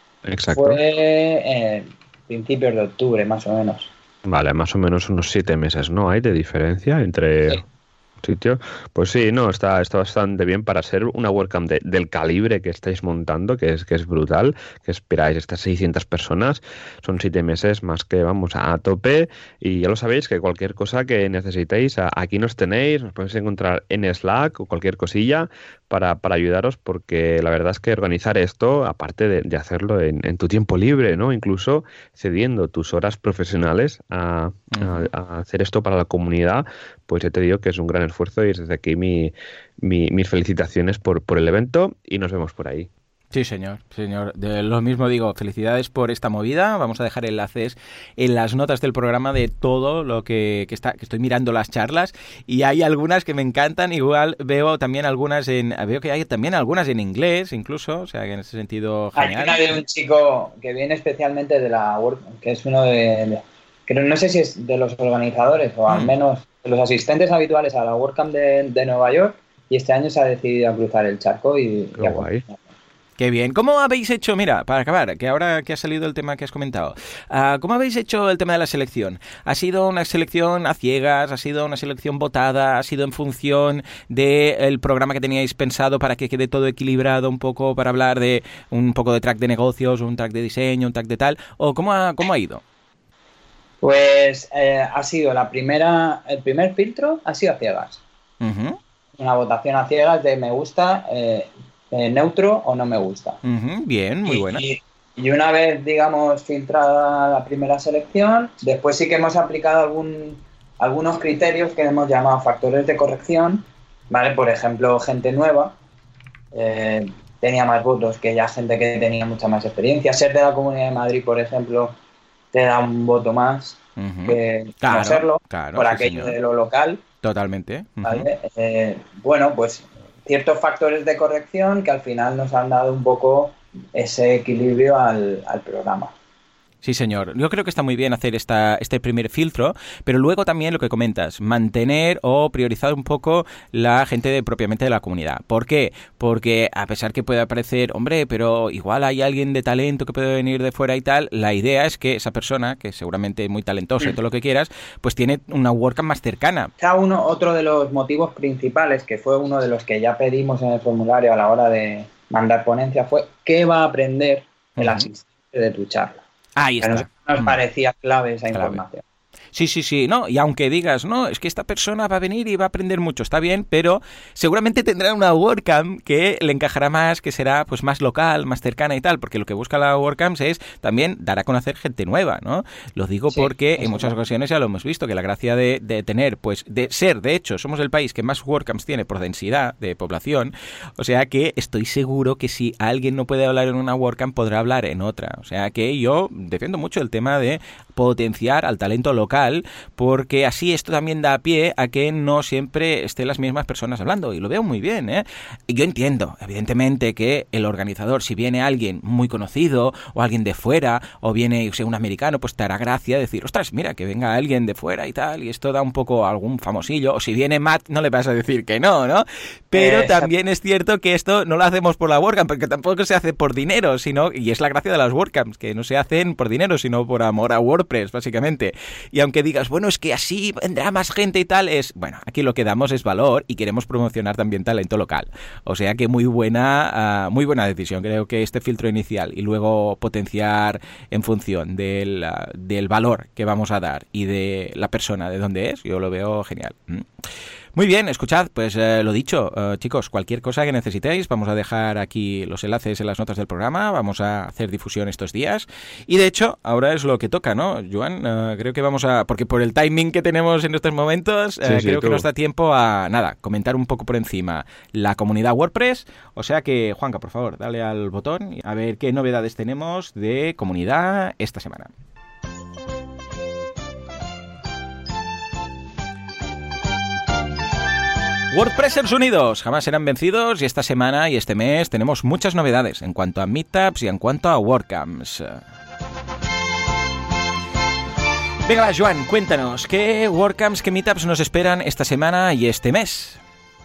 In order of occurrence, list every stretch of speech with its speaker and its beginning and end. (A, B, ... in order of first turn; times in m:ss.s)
0:00.2-0:00.8 A
0:00.5-0:03.9 B
0:04.2-0:07.6 A
0:08.2-0:42.9 A
0:34.7-0:35.1 C
0:43.3-0:59.6 C
0:59.2-1:12.6 B
1:05.9-1:06.1 C
1:12.0-1:12.4 A
1:13.2-1:32.6 C
1:33.8-1:38.0 B
1:38.4-1:38.8 C
1:39.2-1:43.4 B
1:43.4-1:44.6 C
1:44.2-1:55.8 B
1:56.5-2:02.0 B
2:02.5-2:07.0 B
2:04.0-2:06.3 C
2:07.2-2:08.3 C
2:08.0-2:16.1 B
2:16.8-2:36.7 C
2:36.8-2:46.2 B
2:44.8-2:45.1 C
2:46.6-2:47.6 C
2:46.8-2:49.0 B
2:48.5-2:48.8 C
2:49.5-4:07.1 C
3:03.3-3:04.1 B
3:39.7-3:40.3 B
4:07.7-4:31.9 C
4:21.6-4:22.3 A
4:38.5-4:45.6 C
4:48.6-4:53.4 C